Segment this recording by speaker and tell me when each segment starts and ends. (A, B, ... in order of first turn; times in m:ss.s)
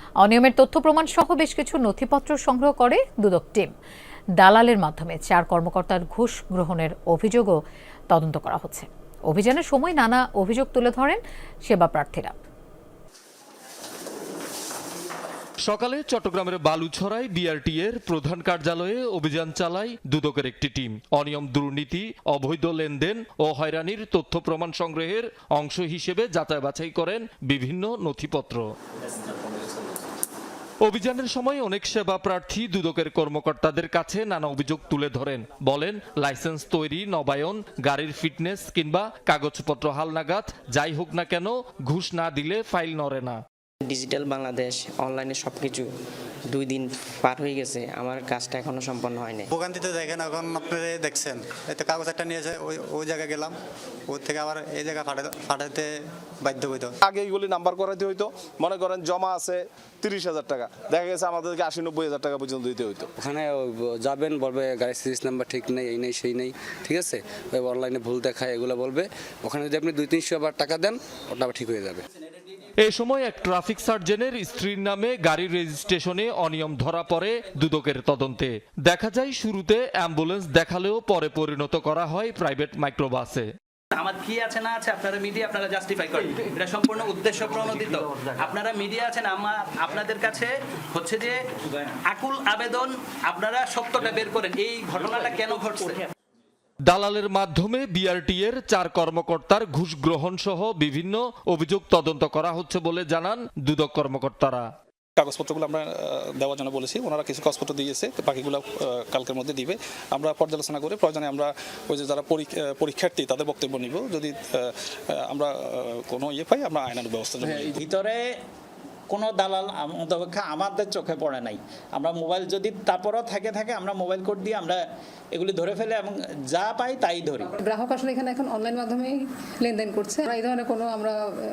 0:00.2-0:03.7 A
0:04.4-0:07.6 A
0:08.1-0:12.4 A
0:15.6-0:28.7 B
0:30.8-0:43.4 B
0:43.9-0:45.8 C
0:46.6-0:49.5 C
0:49.5-0:53.5 D
0:54.1-0:55.9 D
0:56.4-0:57.0 D
0:57.0-1:03.1 E
1:03.2-1:12.0 F
1:12.8-1:23.5 B
1:24.0-1:25.1 G
1:26.6-1:30.4 G
1:33.4-1:34.3 G
1:35.0-1:35.8 G
1:36.9-1:44.7 B
1:45.2-1:57.8 H
1:57.8-1:58.3 I
1:59.1-2:04.8 I
2:05.3-2:07.5 I
2:07.6-2:11.2 J